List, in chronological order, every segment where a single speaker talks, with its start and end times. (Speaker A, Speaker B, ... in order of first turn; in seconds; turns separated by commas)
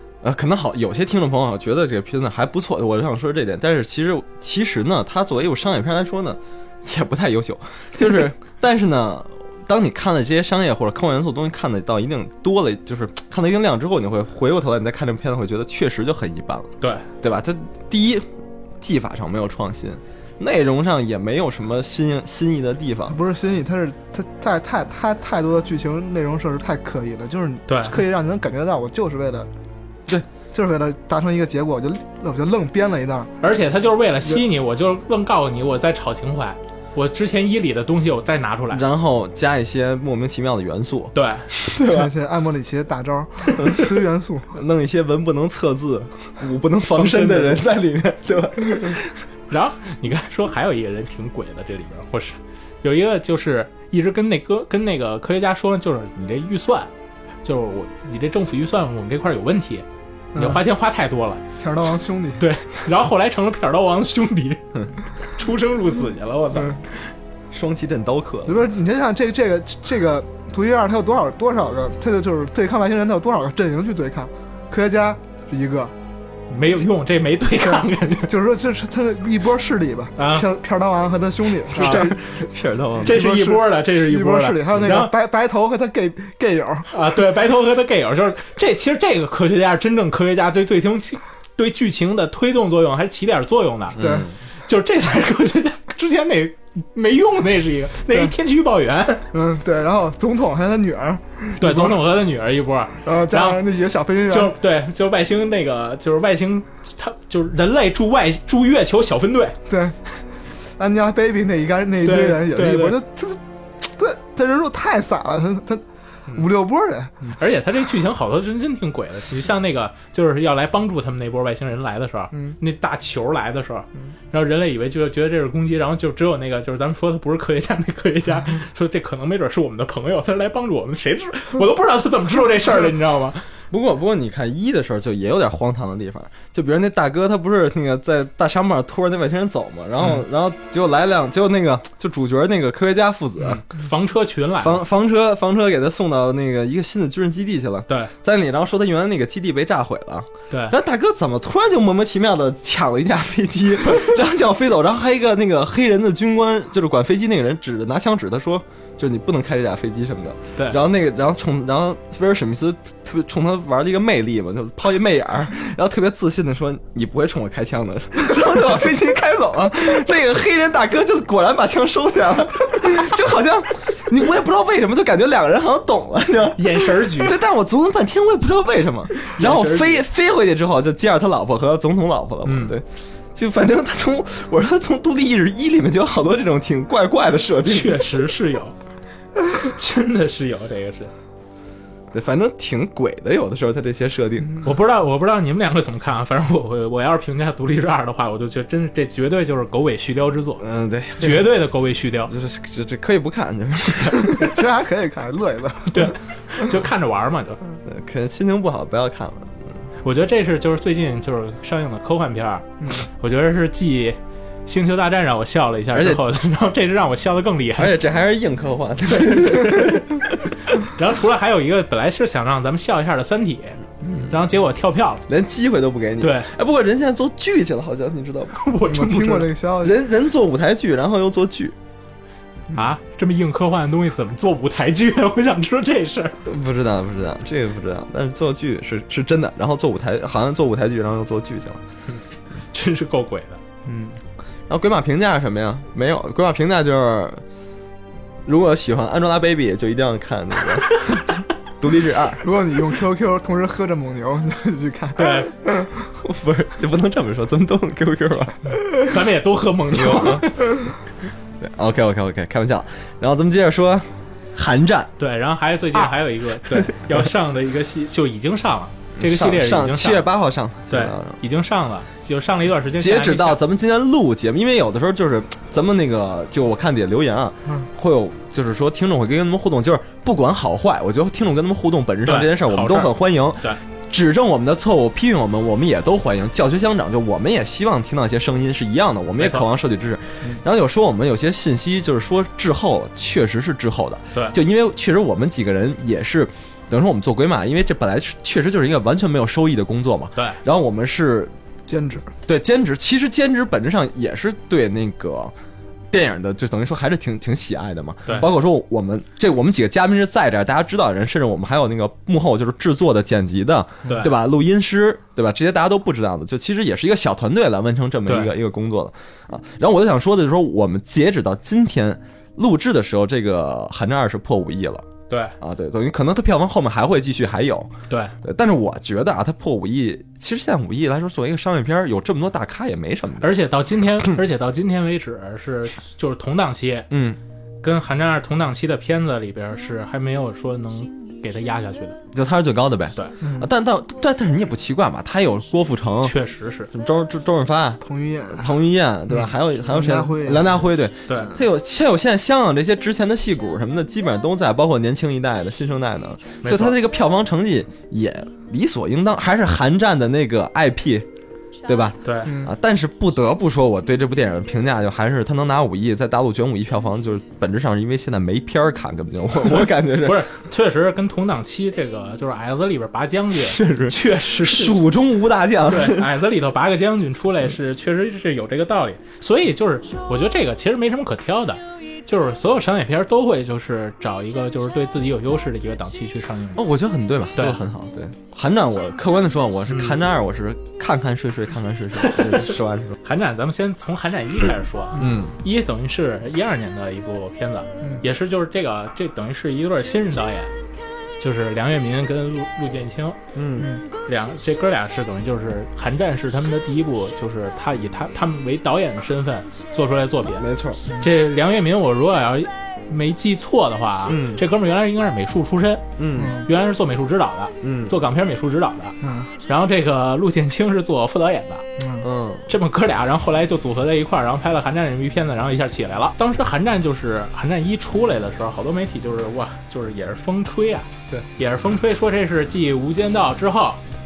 Speaker A: 0.2-18.2, Speaker B: 16.8-17.1, Speaker A: 18.8-23.2, Speaker C: 23.1-29.5, Speaker B: 27.7-28.0, Speaker C: 30.5-33.3, Speaker B: 33.4-38.8, Speaker A: 38.7-42.1, Speaker B: 41.1-41.5, Speaker C: 41.8-44.5, Speaker A: 44.5-49.1, Speaker B: 46.9-47.7, Speaker B: 49.5-56.9, Speaker B: 57.4-61.4, Speaker C: 60.3-60.6, Speaker C: 61.6-62.4, Speaker B: 62.4-64.6, Speaker B: 65.3-66.8, Speaker A: 67.5-68.6, Speaker C: 68.5-75.9, Speaker B: 76.5-78.3, Speaker C: 78.3-82.1, Speaker B: 80.2-80.5, Speaker B: 81.8-82.2, Speaker A: 81.8-83.2, Speaker C: 83.0-86.9, Speaker B: 83.0-85.1, Speaker B: 86.9-94.0, Speaker A: 94.0-94.4, Speaker C: 94.0-94.2, Speaker B: 94.6-99.3, Speaker C: 99.3-102.0, Speaker B: 101.6-103.6, Speaker C: 103.0-104.5, Speaker B: 104.3-109.6, Speaker C: 109.7-110.0, Speaker C: 110.8-115.8, Speaker B: 112.0-113.0, Speaker C: 116.3-117.3, Speaker B: 117.3-133.4, Speaker A: 133.7-143.6, Speaker B: 143.4-144.8, Speaker A: 144.6-188.2, Speaker B: 147.9-148.1, Speaker B: 150.5-150.7, Speaker B: 176.6-177.4, Speaker B: 179.2-180.0, Speaker B: 182.4-182.8, Speaker B: 187.6-188.7, Speaker B: 189.6-191.1, Speaker A: 192.1-194.5, Speaker B: 194.6-200.6, Speaker A: 200.6-201.5, Speaker B: 201.2-202.3, Speaker A: 202.3-204.6, Speaker C: 204.3-206.1, Speaker B: 205.9-207.6, Speaker A: 207.8-209.8, Speaker B: 210.0-217.9, Speaker A: 215.9-216.2, Speaker A: 217.8-220.2, Speaker B: 219.2-220.1, Speaker B: 220.8-225.2, Speaker A: 225.3-228.6, Speaker B: 226.2-226.5, Speaker B: 228.5-229.5, Speaker C: 228.9-230.0, Speaker A: 229.8-231.8, Speaker B: 232.7-236.4, Speaker A: 236.4-241.8, Speaker B: 242.1-243.6, Speaker C: 243.8-244.2, Speaker A: 244.7-247.4, Speaker A: 248.4-251.2, Speaker A: 251.8-252.5, Speaker C: 252.4-255.9, Speaker B: 255.2-255.5, Speaker A: 256.2-258.8, Speaker B: 259.0-260.8, Speaker A: 259.9-260.5, Speaker A: 261.6-265.1, Speaker B: 265.2-270.2, Speaker A: 269.2-271.4, Speaker B: 270.9-273.6, Speaker A: 273.0-301.5, Speaker B: 282.2-283.8, Speaker B: 289.4-289.7, Speaker C: 301.9-302.3, Speaker A: 302.4-305.5, Speaker A: 306.1-325.1, Speaker B: 314.0-314.3, Speaker B: 318.2-318.5, Speaker B: 325.3-325.5, Speaker A: 325.6-333.6, Speaker B: 333.4-337.1, Speaker A: 337.1-337.4, Speaker B: 337.8-342.2, Speaker A: 342.3-346.4, Speaker C: 343.4-343.7, Speaker B: 346.2-346.9, Speaker A: 346.9-348.0, Speaker C: 348.0-348.7, Speaker A: 348.5-361.3, Speaker C: 349.9-350.7, Speaker B: 351.3-351.5, Speaker B: 356.6-357.0, Speaker A: 361.8-370.5, Speaker B: 362.2-362.5, Speaker C: 362.4-362.7, Speaker B: 369.7-375.0, Speaker A: 373.7-376.3, Speaker B: 375.9-386.8, Speaker A: 386.8-393.2, Speaker B: 387.5-387.8, Speaker B: 389.9-390.2, Speaker B: 393.2-400.7, Speaker A: 395.1-395.6, Speaker B: 401.4-403.4, Speaker A: 403.5-403.9, Speaker C: 403.8-404.0, Speaker B: 404.2-410.6, Speaker A: 410.6-411.1, Speaker B: 411.2-416.1, Speaker A: 414.3-414.6, Speaker A: 416.2-416.6, Speaker C: 416.4-416.7, Speaker B: 416.6-421.8, Speaker A: 417.8-418.1, Speaker C: 419.2-419.5, Speaker C: 422.0-422.3, Speaker A: 422.2-422.7, Speaker B: 422.7-434.0